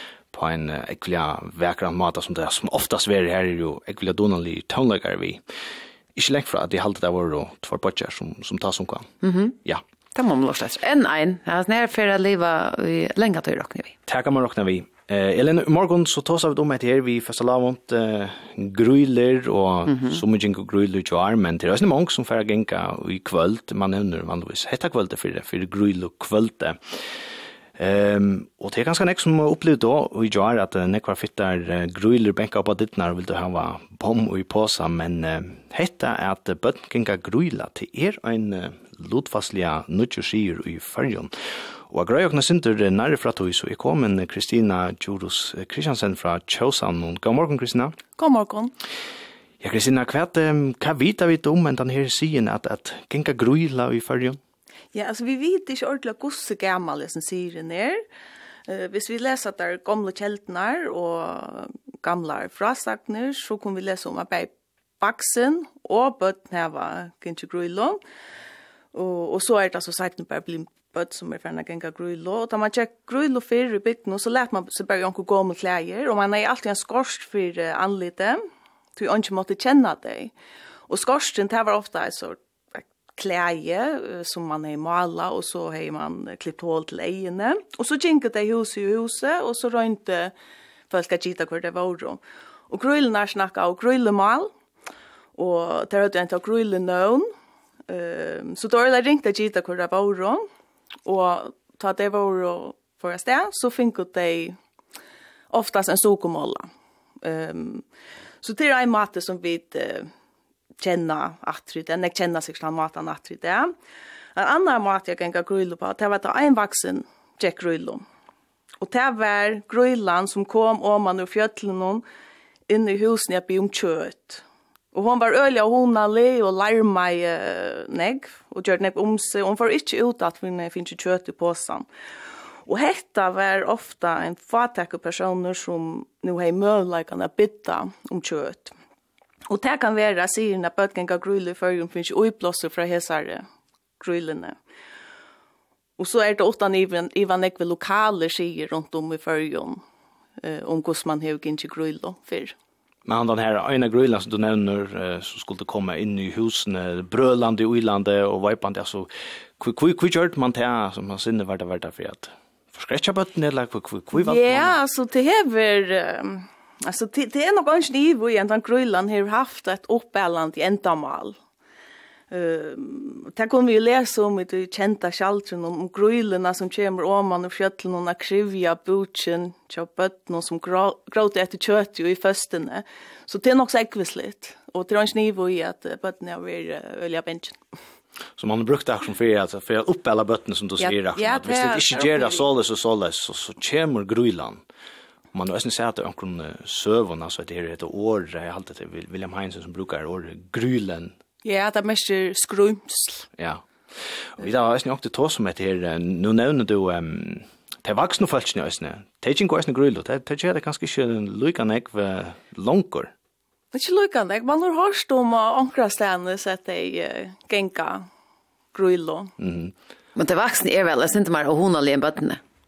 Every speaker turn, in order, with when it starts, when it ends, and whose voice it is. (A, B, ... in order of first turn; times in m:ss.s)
0:00.3-0:05.4 A
0:06.1-0:09.1 A
0:09.2-0:09.5 B
0:10.1-0:14.0 B
0:14.0-0:48.0 A
0:19.9-0:20.2 B
0:48.2-0:48.7 C
0:49.6-0:54.4 A
0:54.9-0:58.0 C
0:58.7-1:08.0 C
1:08.9-1:18.4 C
1:19.0-1:20.3 C
1:20.9-1:30.3 C
1:30.9-1:34.5 C
1:35.4-1:37.3 C
1:37.9-1:40.4 C
1:41.0-1:44.6 C
1:45.5-1:46.7 C
1:47.2-1:47.8 C
1:48.4-1:50.1 C
1:50.8-1:53.7 C
1:54.4-1:58.0 C
1:58.8-2:02.0 C
2:02.7-2:11.9 C
2:12.6-2:18.7 C
2:19.5-2:23.4 C
2:24.0-2:24.6 C
2:26.0-2:29.8 C
2:30.4-2:32.5 C
2:33.0-2:44.8 A
2:44.1-2:51.4 C
2:52.3-3:07.6 C
3:08.4-3:14.6 A
3:10.8-3:12.5 C
3:15.3-3:21.2 A
3:21.4-3:23.3 C
3:23.4-3:33.1 A
3:33.7-3:38.1 C
3:38.7-3:39.3 C
3:39.4-3:39.7 A
3:40.2-3:42.4 B